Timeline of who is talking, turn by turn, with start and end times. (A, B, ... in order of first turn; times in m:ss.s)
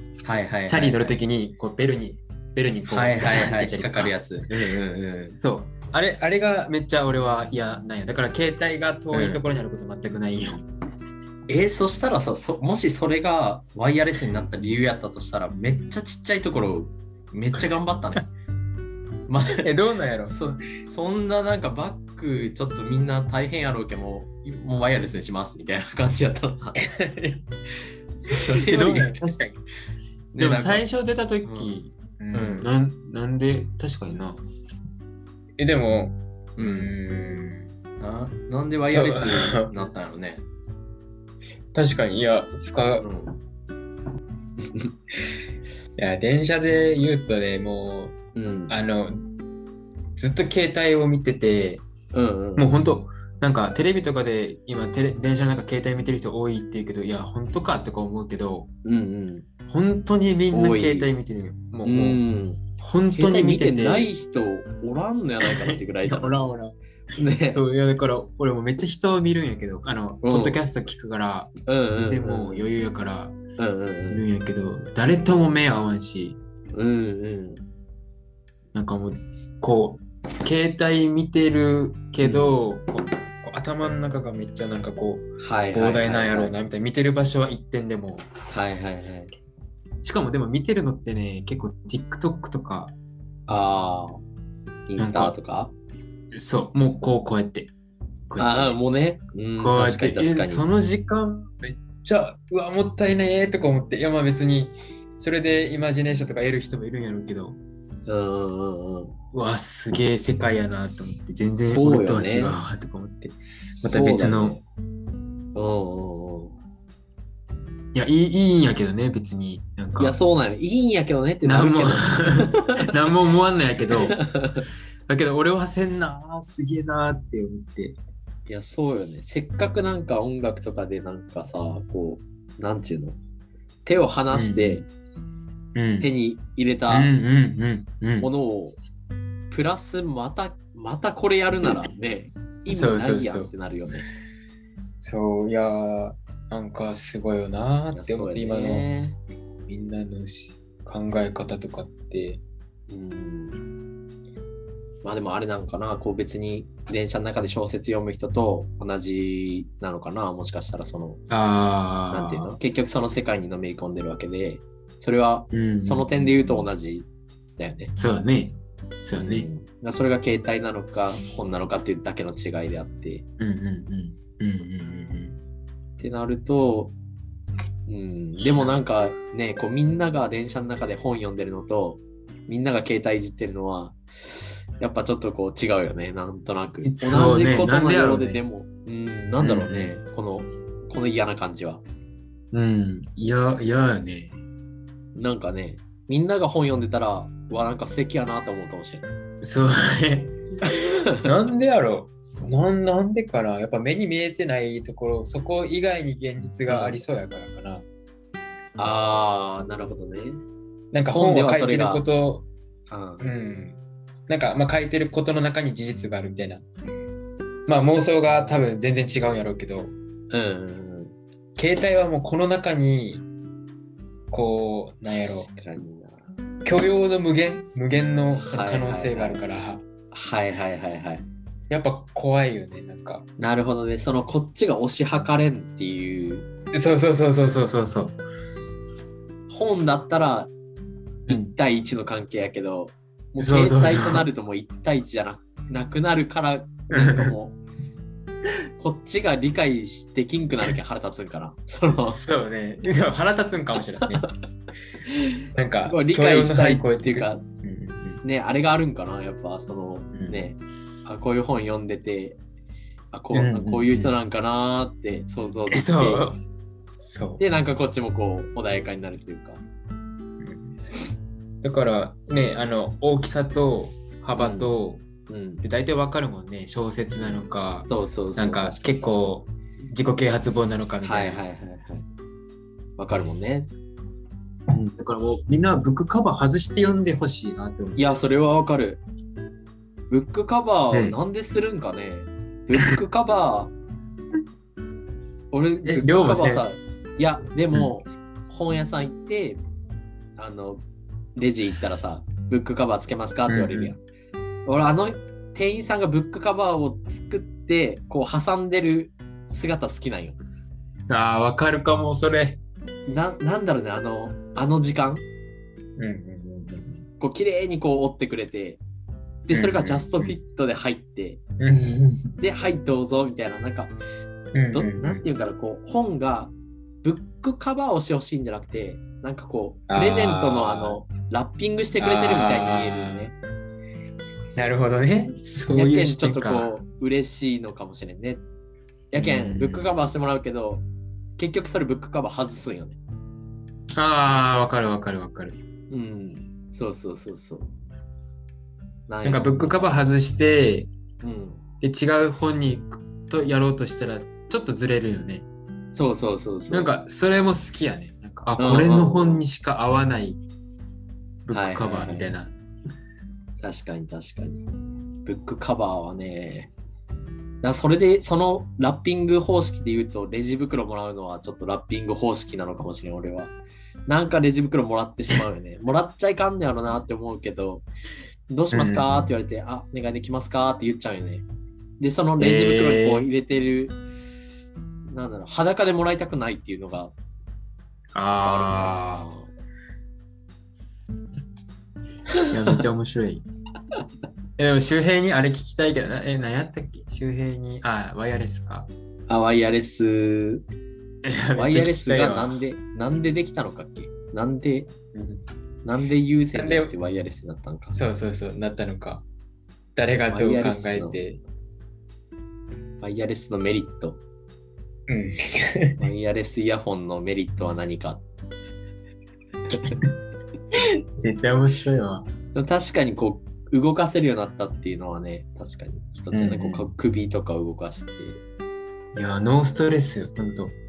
0:00.2-0:01.1 A
0:00.7-0:04.1 B
0:02.8-0:05.4 A
0:05.4-0:10.6 B
0:09.1-0:09.4 A
0:11.5-0:18.3 A
0:19.3-0:19.6 A
0:19.5-0:20.3 B
0:20.2-0:26.8 A
0:26.8-0:27.4 B
0:28.3-0:29.2 A
0:28.7-0:29.6 B
0:30.3-0:30.8 A
0:30.4-0:34.4 B
0:31.4-0:31.7 A
0:32.3-0:32.7 A
0:35.6-0:37.7 B
0:36.6-0:36.9 A
0:38.0-0:40.4 A
0:38.9-0:39.7 B
0:41.7-0:43.1 B
0:43.0-0:43.4 A
0:46.0-0:48.1 B
0:48.3-0:48.8 A
0:48.7-0:49.3 B
0:50.2-0:51.8 B
0:52.1-0:52.7 A
0:52.6-0:58.7 B
0:58.8-0:59.5 A
0:59.7-1:02.2 B
1:00.5-1:01.1 A
1:01.8-1:02.6 A
1:02.8-1:04.1 B
1:03.1-1:06.4 A
1:05.4-1:06.8 B
1:07.1-1:07.6 A
1:07.5-1:13.3 B
1:10.2-1:10.6 A
1:11.7-1:12.7 A
1:13.6-1:14.2 A
1:14.1-1:16.4 B
1:16.7-1:17.6 A
1:18.7-1:28.2 B
1:22.2-1:22.6 A
1:25.4-1:26.6 A
1:28.5-1:29.3 A
1:30.0-1:32.9 B
1:33.5-1:34.2 A
1:34.9-1:35.7 A
1:35.0-1:35.3 B
1:36.3-1:37.7 B
1:38.3-1:38.8 B
1:38.4-1:40.6 A
1:39.6-1:47.6 B
1:48.1-1:49.1 A
1:49.3-1:54.6 B
1:51.6-1:52.6 A
1:53.8-1:54.6 A
1:55.6-1:56.6 A
1:57.9-2:00.2 B
2:00.0-2:02.6 A
2:01.4-2:04.2 B
2:04.1-2:04.6 A
2:05.1-2:08.0 B
2:08.5-2:13.2 A
2:13.8-2:14.8 A
2:14.3-2:14.8 B
2:15.8-2:16.1 B
2:16.0-2:17.1 A
2:16.9-2:18.3 B
2:18.2-2:18.8 A
2:19.5-2:24.1 A
2:22.7-2:23.5 B
2:25.0-2:28.9 B
2:27.9-2:29.2 A
2:29.7-2:32.4 B
2:32.9-2:33.6 A
2:35.0-2:41.2 A
2:41.3-2:42.6 B
2:42.1-2:47.9 A
2:45.5-2:46.7 B
2:48.0-2:49.5 B
2:49.2-2:53.2 A
2:53.4-2:55.4 B
2:56.0-2:56.9 A
2:57.9-3:11.8 A
2:58.4-2:58.8 B
3:06.8-3:08.4 B
3:09.4-3:09.9 B
3:12.5-3:14.4 B
3:15.1-3:19.1 A
3:19.4-3:20.4 B
3:21.2-3:27.8 B
3:26.7-3:27.0 A
3:28.8-3:30.4 A
3:30.9-3:32.5 B
3:31.1-3:32.0 A
3:32.9-3:33.2 A
3:33.2-3:36.6 B
3:37.7-3:39.9 B
3:40.3-3:41.2 A
3:41.6-3:43.2 B
3:44.3-3:45.5 B
3:45.2-3:46.2 A
3:46.6-3:49.8 B
3:48.4-3:49.4 A
3:50.1-3:51.2 A
3:51.7-3:53.2 B
3:53.4-3:56.4 A
3:56.7-3:58.2 B
3:59.5-4:00.5 A
4:01.3-4:01.5 B
4:01.3-4:07.6 A
4:03.4-4:04.3 B
4:06.9-4:07.3 B
4:08.8-4:12.2 A
4:11.9-4:14.2 B
4:15.6-4:18.2 B
4:15.8-4:17.4 A
4:18.2-4:22.4 A
4:20.2-4:20.4 B
4:23.1-4:26.3 A
4:23.3-4:24.2 B
4:25.7-4:26.4 B
4:27.0-4:27.4 B
4:27.4-4:29.6 A
4:30.4-4:30.8 B
4:31.6-4:35.0 B
4:34.4-4:34.7 A
4:35.3-4:35.6 A
4:35.6-4:41.4 B
4:37.9-4:39.3 A
4:41.0-4:42.1 A
4:43.0-4:43.7 A
4:44.7-4:48.2 B
4:48.0-4:49.0 A
4:50.1-4:53.7 A
4:50.9-4:51.2 B
4:55.5-4:59.6 A
4:55.8-4:56.7 B
5:00.4-5:00.8 A
5:01.4-5:04.0 A
5:03.5-5:03.9 B
5:04.7-5:10.4 A
5:11.1-5:12.6 B
5:13.1-5:15.2 A
5:16.0-5:17.0 B
5:17.2-5:18.8 A
5:19.5-5:21.4 A
5:19.5-5:20.4 B
5:21.6-5:22.4 B
5:22.4-5:24.0 A
5:24.5-5:25.2 B
5:24.7-5:33.3 A
5:29.9-5:31.0 B
5:32.0-5:33.3 B
5:34.6-5:36.7 B
5:35.7-5:38.4 A
5:39.1-5:40.8 A
5:39.2-5:40.0 B
5:41.4-5:43.0 A
5:43.9-5:45.6 B
5:45.9-5:47.7 A
5:49.1-5:50.0 A
5:49.2-5:50.9 B
5:51.2-5:51.6 A
5:51.8-5:55.4 B
5:55.9-5:56.9 A
5:56.7-6:00.4 B
5:58.6-5:59.4 A
6:01.4-6:02.5 B
6:01.5-6:02.3 A
6:03.6-6:04.6 A
6:05.2-6:06.7 A
6:07.6-6:13.5 A
6:14.1-6:17.8 A
6:18.5-6:21.4 A
6:18.7-6:19.3 B
6:22.0-6:24.0 A
6:22.4-6:23.3 B
6:25.1-6:27.1 A
6:28.2-6:29.2 B
6:28.4-6:29.5 A
6:32.5-6:33.4 B
6:34.6-6:38.9 B
6:39.3-6:40.6 A
6:41.2-6:42.6 B
6:41.6-6:44.9 A
6:45.1-6:45.4 B
6:45.8-6:48.0 A
6:46.5-6:46.9 B
6:47.9-6:49.2 B
6:50.0-6:51.4 B
6:50.3-6:51.2 A
6:53.0-6:54.2 A
6:55.1-6:56.0 B
6:56.0-6:58.2 A
6:59.7-7:00.0 A
6:59.7-7:00.1 B
7:00.8-7:02.3 B
7:02.5-7:08.4 A
7:06.3-7:06.9 B
7:09.2-7:10.7 B